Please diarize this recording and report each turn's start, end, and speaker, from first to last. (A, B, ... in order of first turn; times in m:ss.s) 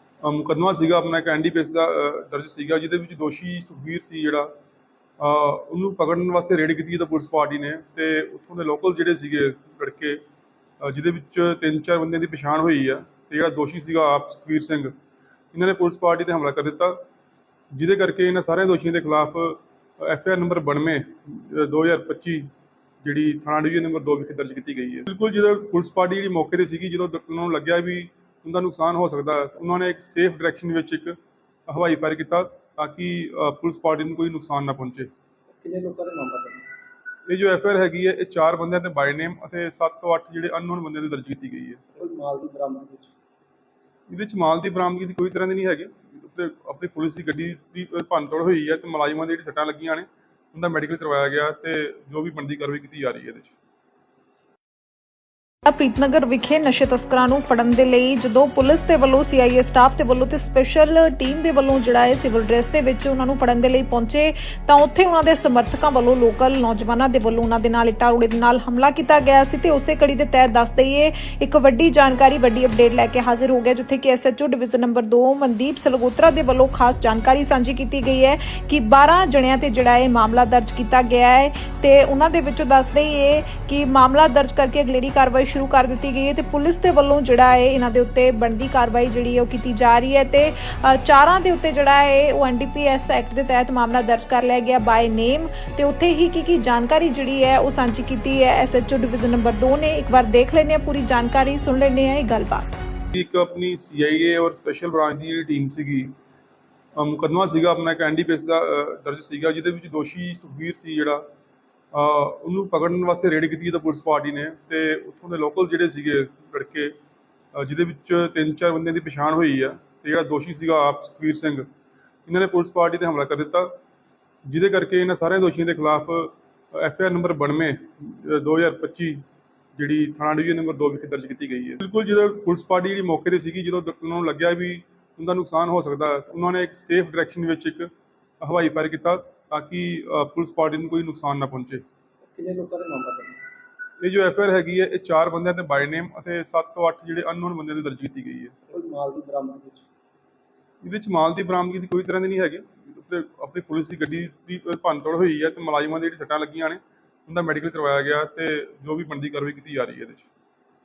0:00.2-0:04.5 A
0:05.2-0:10.2 A
0:10.8-0:14.9 A
0:15.5-0:17.0 A
0:17.7-0:22.5 A
0:23.0-0:35.1 A
0:35.5-0:36.7 B
0:37.3-0:41.8 A
0:41.9-0:43.1 B
0:44.1-0:53.5 A
0:55.7-1:42.7 C
1:43.1-1:46.1 A
1:47.0-1:51.2 A
1:51.9-1:57.0 A
1:57.5-2:01.7 A
2:02.3-2:03.7 A
2:04.4-2:09.2 A
2:09.8-2:17.9 A
2:18.4-2:21.8 A
2:22.2-2:23.4 B
2:24.0-2:28.5 A
2:28.7-2:29.9 B
2:30.8-2:40.3 A